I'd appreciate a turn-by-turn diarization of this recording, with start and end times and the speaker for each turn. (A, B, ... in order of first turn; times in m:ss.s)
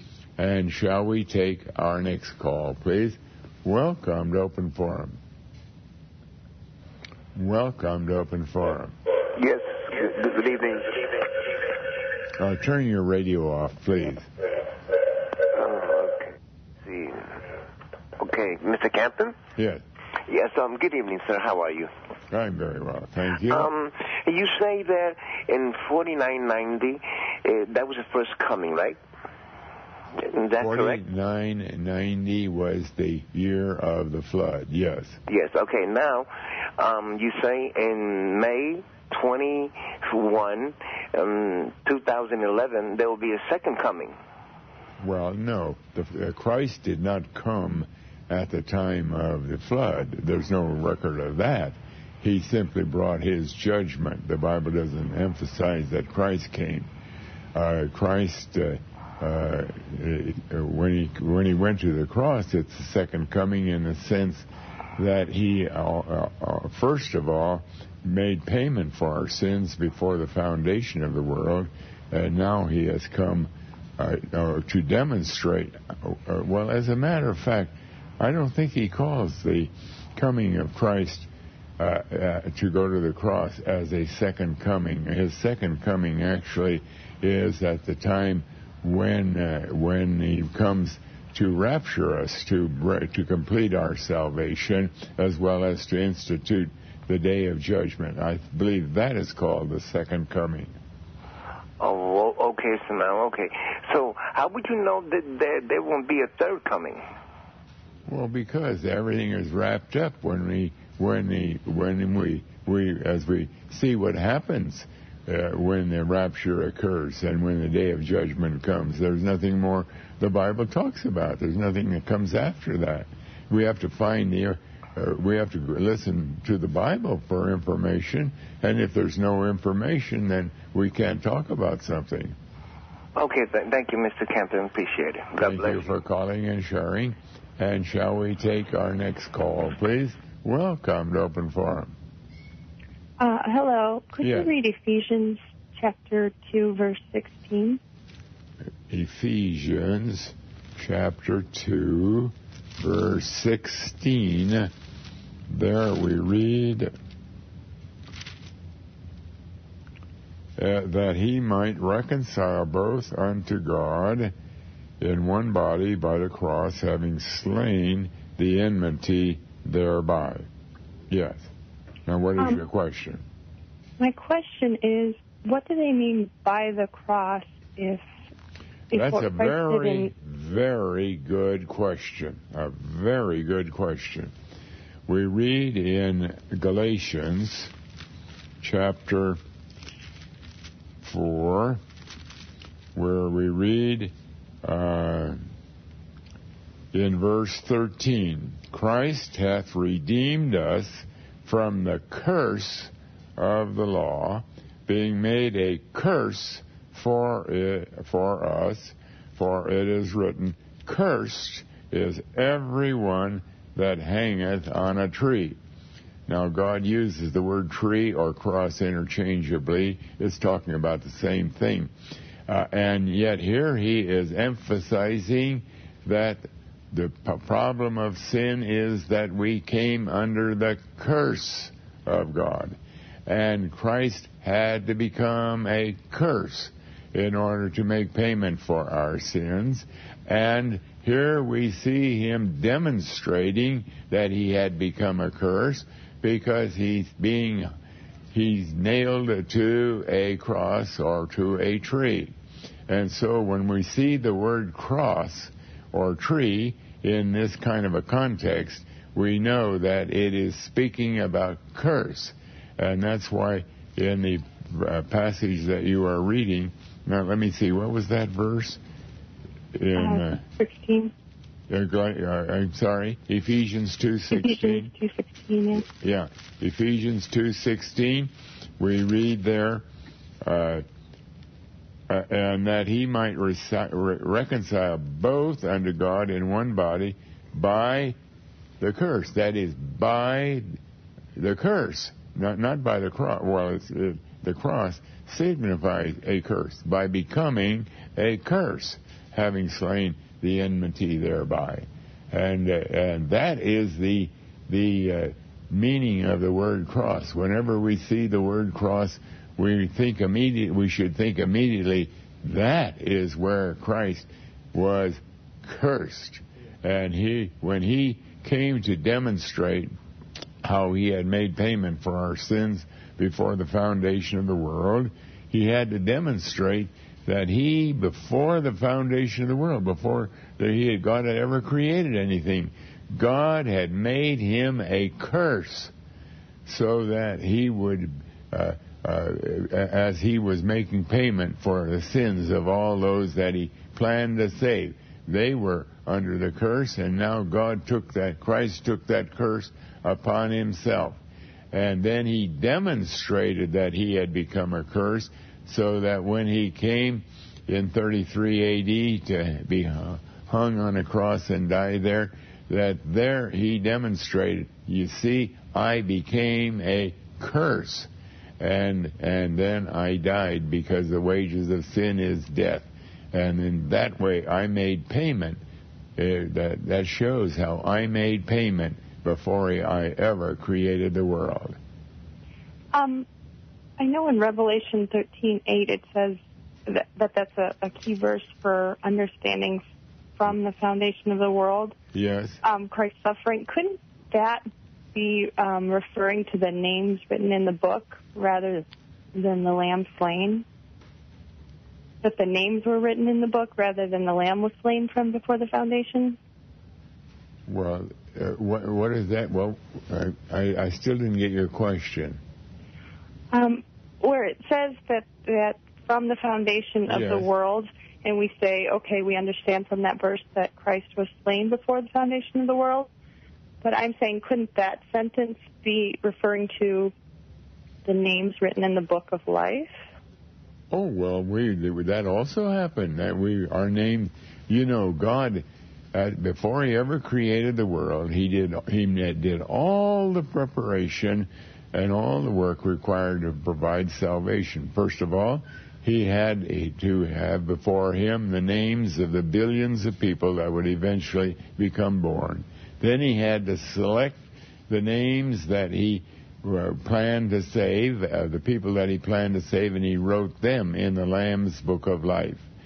0:00.4-0:05.2 A
0:07.4-0:09.0 A
0:09.3-0:11.5 B
0:12.4-0:14.3 A
0:15.5-0:16.3 B
0:16.8-0:17.5 B
0:18.2-0:19.4 B
0:19.6-0:19.8 A
0:20.3-0:21.9 B
0:22.3-0:23.7 A
0:23.5-0:29.0 B
0:30.2-0:31.0 B
0:30.6-0:35.2 A
0:35.3-0:44.2 B
0:45.0-0:56.9 A
0:57.6-1:04.5 A
1:05.0-1:21.3 A
1:21.8-1:40.7 A
1:41.8-1:47.1 B
1:48.1-2:12.4 A
2:13.2-2:15.9 B
2:15.4-2:21.9 A
2:23.2-2:27.8 C
2:24.2-2:24.5 A
2:28.9-2:34.7 A
2:35.5-2:36.9 A
2:40.6-2:44.3 A
2:45.0-2:50.5 A
2:51.1-2:51.5 A
2:52.1-2:53.2 A
2:52.4-2:52.6 C
2:54.0-2:58.0 C
2:58.9-3:00.1 C
2:58.9-3:04.3 A
3:05.1-3:07.7 A
3:08.6-3:09.4 A
3:11.0-3:11.8 A
3:13.0-3:15.4 A
3:16.9-3:35.6 A
3:36.3-3:41.9 A
3:42.5-3:52.8 A
3:53.3-4:07.7 A
4:08.3-4:12.3 A
4:12.9-4:28.8 A
4:29.8-4:30.4 A
4:30.0-4:31.1 C
4:31.7-4:34.9 A
4:34.3-4:35.9 C
4:36.0-4:39.8 A
4:40.4-4:40.8 A
4:42.1-4:48.2 A
4:48.8-4:50.7 A
4:51.4-5:19.9 A
5:20.6-5:35.9 A
5:36.7-5:51.2 A
5:51.7-6:08.1 A
6:08.6-6:15.6 A
6:16.2-6:21.8 A
6:22.9-6:23.3 C
6:24.0-6:29.8 C
6:30.4-6:32.0 C
6:32.1-6:32.6 A
6:32.6-6:40.6 C
6:42.2-6:46.4 C
6:47.7-6:52.4 A
6:53.5-7:03.1 C
6:57.1-6:57.5 A
7:03.8-7:07.1 C
7:08.0-7:10.0 C
7:10.9-7:42.7 A